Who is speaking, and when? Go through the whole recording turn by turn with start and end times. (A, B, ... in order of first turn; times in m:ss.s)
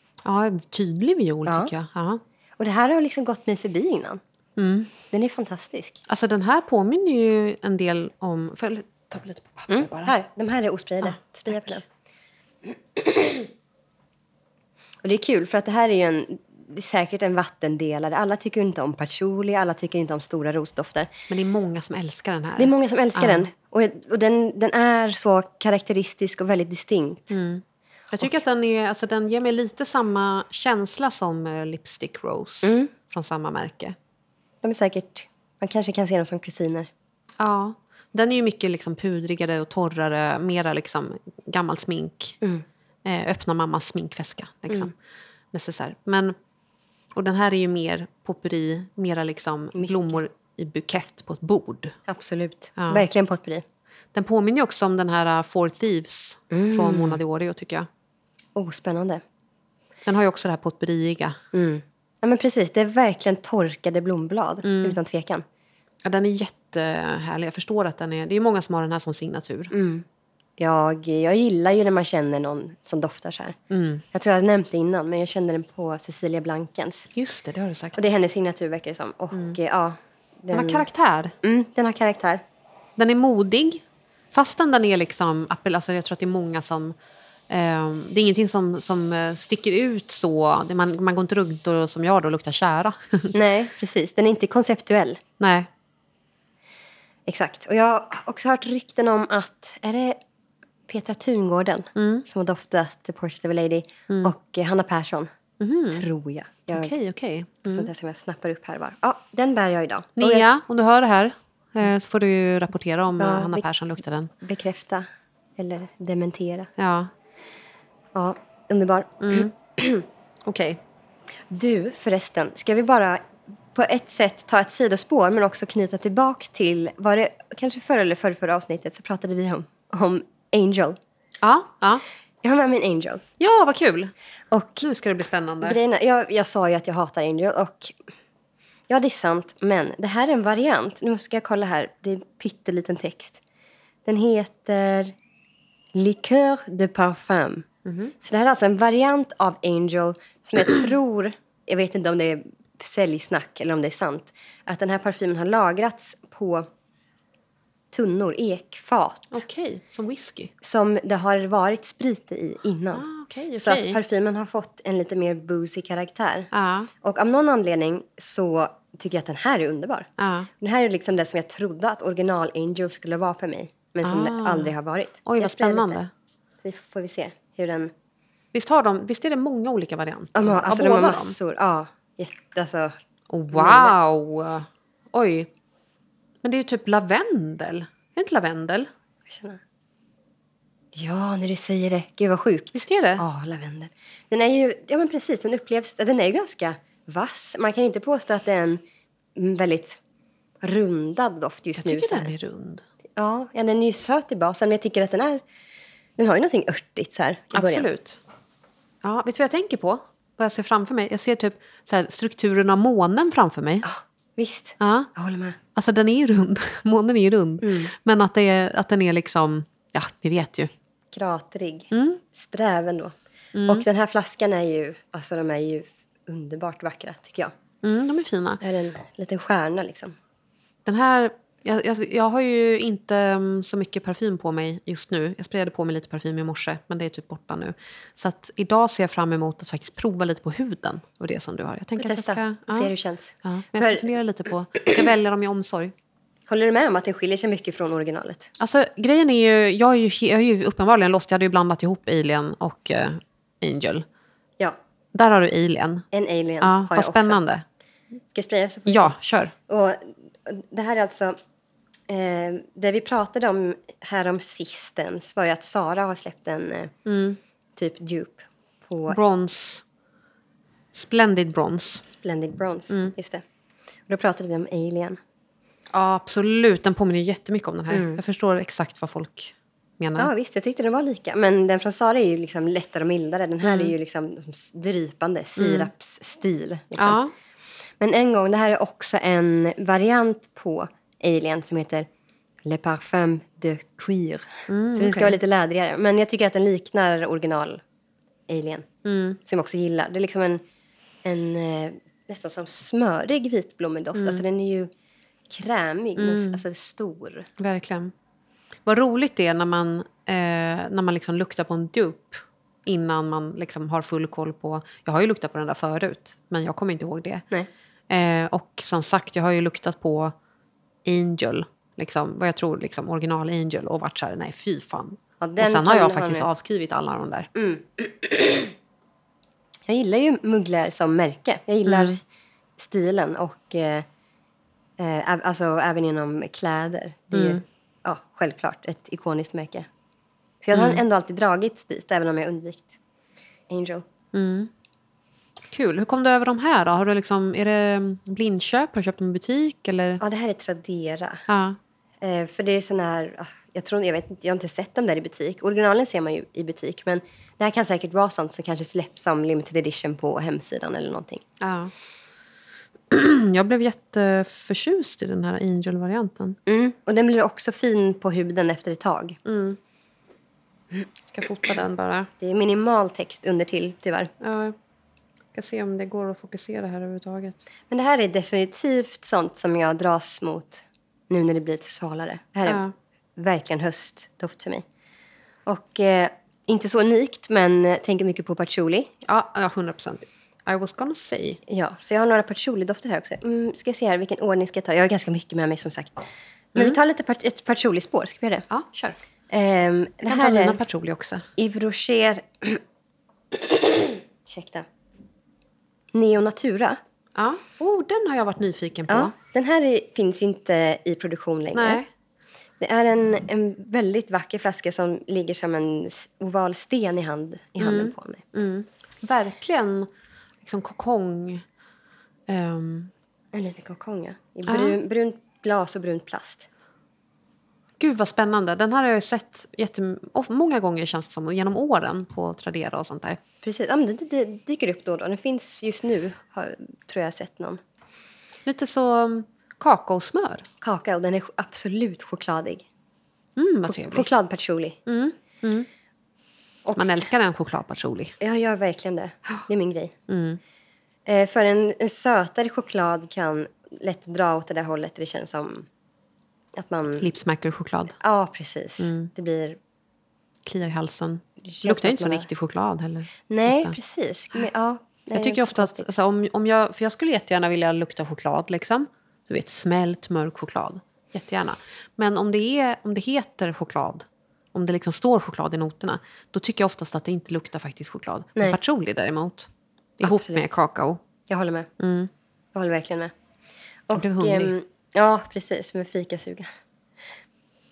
0:00.2-0:02.2 A
0:01.5-0:01.7 B
0:02.6-0:04.2 B
0:04.6-0:04.9 A
0:05.1-0:06.0 B
0:06.1-0:10.1 A
0:09.7-0:11.8 B
0:11.0-0:11.8 A
0:12.7-0:13.5 B
0:15.0-0:21.1 B
0:21.3-0:23.5 A
0:22.6-0:27.3 B
0:27.3-0:34.0 A
0:32.6-0:32.9 B
0:34.6-0:36.9 B
0:37.4-0:42.4 A
0:43.0-0:44.9 A
0:45.5-0:46.4 A
0:47.1-0:52.0 A
0:49.8-0:50.2 B
0:52.1-0:53.6 B
0:52.8-0:53.0 A
0:54.1-0:57.9 A
0:56.5-0:57.2 B
0:58.6-0:59.2 B
1:00.1-1:01.4 A
1:01.5-1:05.4 B
1:04.6-1:05.0 A
1:06.0-1:09.7 A
1:09.7-1:10.0 B
1:10.6-1:13.6 B
1:13.7-1:14.0 A
1:14.1-1:17.1 B
1:17.1-1:18.1 A
1:18.0-1:20.9 B
1:20.5-1:21.4 A
1:21.4-1:22.4 B
1:23.0-1:27.0 A
1:27.5-1:33.3 A
1:33.3-1:35.2 B
1:35.4-1:35.7 A
1:37.3-1:40.2 B
1:40.9-1:45.3 B
1:42.0-1:42.2 A
1:45.6-1:46.1 A
1:45.9-1:46.9 B
1:46.7-1:47.9 A
1:47.7-1:50.5 B
1:50.2-1:54.3 A
1:53.2-1:53.6 B
1:54.4-1:55.1 B
1:55.6-1:56.7 B
1:56.8-1:57.1 A
1:58.1-2:00.0 B
1:59.2-1:59.5 A
2:00.4-2:00.8 A
2:01.5-2:03.2 B
2:03.7-2:11.0 B
2:11.4-2:12.0 A
2:12.4-2:13.2 B
2:13.4-2:14.1 A
2:14.5-2:14.9 B
2:14.8-2:15.8 A
2:15.6-2:18.0 B
2:18.9-2:23.4 B
2:24.1-2:25.2 B
2:25.9-2:36.7 B
2:27.8-2:28.1 A
2:37.9-2:39.4 B
2:39.3-2:40.5 A
2:40.6-2:43.1 B
2:42.9-2:44.0 A
2:43.6-2:46.5 B
2:46.5-2:46.9 A
2:47.0-2:50.1 B
2:50.2-2:50.5 A
2:50.6-2:56.0 B
2:54.0-2:54.7 A
2:55.3-2:56.1 A
2:56.6-2:57.9 B
2:58.5-3:01.4 A
3:00.4-3:02.9 B
3:03.3-3:05.5 A
3:03.5-3:04.0 B
3:06.4-3:08.9 A
3:09.3-3:09.6 B
3:11.0-3:18.8 B
3:12.7-3:13.2 A
3:19.4-3:20.0 B
3:20.6-3:22.3 B
3:21.8-3:22.8 A
3:23.2-3:25.4 B
3:26.2-3:27.9 B
3:27.5-3:28.2 A
3:29.0-3:33.8 A
3:33.8-3:35.6 B
3:34.8-3:35.1 A
3:35.8-3:40.7 A
3:37.6-3:37.9 B
3:41.1-3:43.1 B
3:41.9-3:42.2 A
3:43.5-3:43.9 A
3:43.7-3:47.5 B
3:47.8-3:48.6 A
3:48.6-3:50.2 B
3:50.9-4:02.9 A
4:02.0-4:04.1 B
4:03.4-4:05.9 A
4:06.5-4:08.5 B
4:08.6-4:14.0 A
4:15.1-4:16.0 A
4:16.1-4:17.4 B
4:16.6-4:17.6 A
4:18.3-4:19.1 B
4:18.9-4:19.5 A
4:19.7-4:21.4 B
4:22.1-4:26.9 B
4:27.1-4:27.4 A
4:27.8-4:29.2 B
4:29.1-4:29.8 A
4:30.9-4:32.0 A
4:32.1-4:33.4 B
4:34.1-4:35.2 B
4:35.9-4:40.3 A
4:37.9-4:38.2 B
4:40.2-4:47.2 B
4:43.6-4:43.9 A
4:45.6-4:45.9 A
4:47.0-4:47.3 A
4:48.0-4:52.1 B
4:52.6-4:57.8 B
4:54.7-4:55.4 A
4:58.5-4:58.9 B
4:59.0-4:59.4 A
4:59.4-5:00.6 B
5:01.2-5:04.9 B
5:04.2-5:04.4 A
5:05.5-5:07.5 B
5:06.2-5:06.6 A
5:07.6-5:08.1 A
5:08.8-5:17.5 A
5:18.1-5:20.3 A
5:21.0-5:27.5 A
5:25.4-5:26.5 B
5:27.5-5:28.7 B
5:29.9-5:32.2 B
5:31.9-5:32.2 A
5:32.8-5:34.1 B
5:35.0-5:39.9 B
5:37.3-5:37.6 A
5:40.6-5:43.0 B
5:40.7-5:41.0 A
5:43.7-5:44.0 B
5:44.3-5:44.7 A
5:45.7-5:50.2 A
5:50.2-5:51.4 B
5:51.5-5:51.8 A
5:52.2-6:01.4 B
6:01.6-6:01.9 A
6:03.1-6:06.6 A
6:06.7-6:09.4 B
6:09.4-6:09.8 A
6:11.3-6:12.3 A
6:12.4-6:14.3 B
6:14.4-6:14.8 A
6:15.5-6:17.6 A
6:17.9-6:22.8 B
6:22.7-6:22.9 A
6:23.4-6:24.8 B
6:25.7-6:29.1 B
6:29.2-6:31.6 A
6:31.7-6:38.7 B
6:38.7-6:39.2 A
6:39.5-6:40.8 B
6:40.3-6:41.5 A
6:41.6-6:42.8 B
6:43.5-6:44.8 B
6:46.1-6:47.0 B
6:47.4-6:49.3 A
6:49.1-6:52.0 B
6:51.7-6:52.1 A
6:52.8-6:58.4 B
6:57.8-7:00.1 A
7:00.6-7:01.6 A
7:02.5-7:03.1 A
7:03.5-7:06.7 B
7:04.7-7:05.0 A
7:08.0-7:13.4 A
7:13.6-7:17.8 B
7:18.7-7:20.6 A
7:20.8-7:22.9 B
7:23.6-7:24.3 A
7:23.9-7:25.0 B
7:25.1-7:25.9 A
7:26.9-7:27.3 B
7:27.0-7:28.4 A
7:28.4-7:30.1 B
7:30.3-7:30.6 A
7:31.3-7:35.9 B
7:36.8-7:37.3 B
7:37.2-7:38.2 A
7:38.2-7:39.8 B
7:39.0-7:39.3 A
7:40.7-7:44.0 A
7:41.6-7:42.5 B
7:43.5-7:46.1 B
7:45.4-8:01.2 A
8:00.2-8:00.6 B
8:01.5-8:01.9 B
8:02.0-8:02.3 A
8:02.7-8:03.3 B
8:04.1-8:06.7 B
8:04.1-8:04.7 A